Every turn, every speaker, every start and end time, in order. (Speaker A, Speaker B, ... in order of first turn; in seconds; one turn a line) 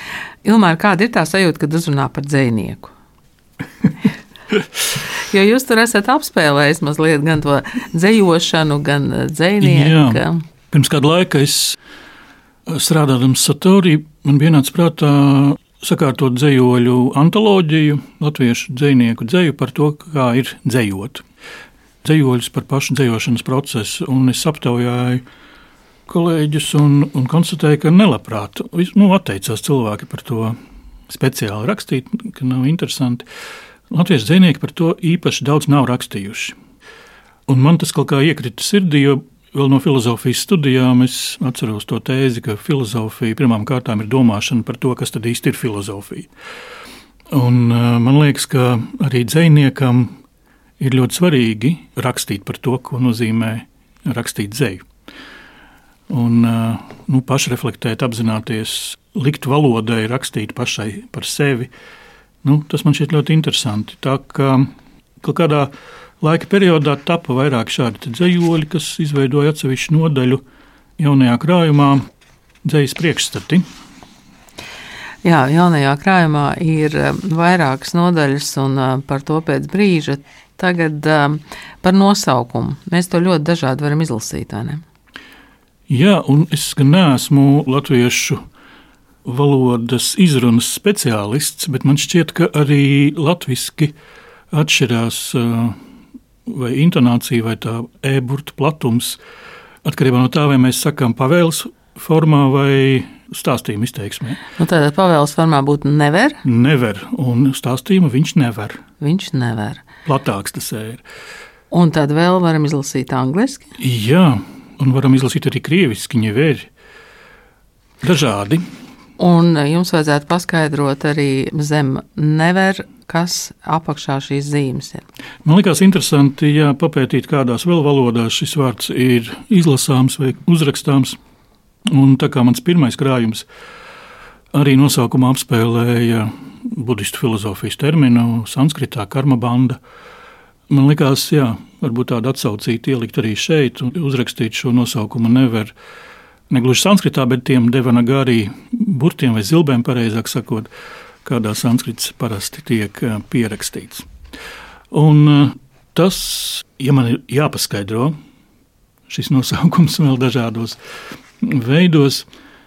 Speaker A: 0.4-2.9
Speaker A: 5.0-10.4
Speaker B: 9.6-11.8
Speaker B: 12.7-21.2
Speaker B: 22.0-25.2
Speaker B: 26.1-30.6
Speaker B: 31.1-33.2
Speaker B: 33.9-36.5
Speaker B: 37.5-46.3
Speaker B: 47.3-50.2
Speaker B: 50.8-54.8
Speaker B: 56.1-61.7
Speaker B: 62.4-70.4
Speaker B: 71.0-72.0
Speaker B: 72.6-73.6
Speaker A: 75.2-84.8
Speaker B: 85.9-88.4
Speaker B: 89.2-93.9
Speaker B: 94.5-95.8
Speaker B: 96.5-99.2
Speaker B: 99.8-104.4
Speaker A: 104.6-106.4
Speaker B: 106.4-108.8
Speaker A: 109.0-109.8
Speaker B: 110.0-111.0
Speaker A: 111.7-113.7
Speaker B: 113.8-116.7
Speaker B: 118.0-118.6
Speaker A: 119.2-125.0
Speaker B: 125.4-131.2
Speaker B: 131.9-133.5
Speaker B: 134.5-139.8
Speaker B: 140.7-145.7
Speaker B: 146.5-150.7
Speaker B: 151.2-154.1
Speaker B: 154.9-158.1
Speaker B: 159.1-160.8
Speaker B: 161.4-162.3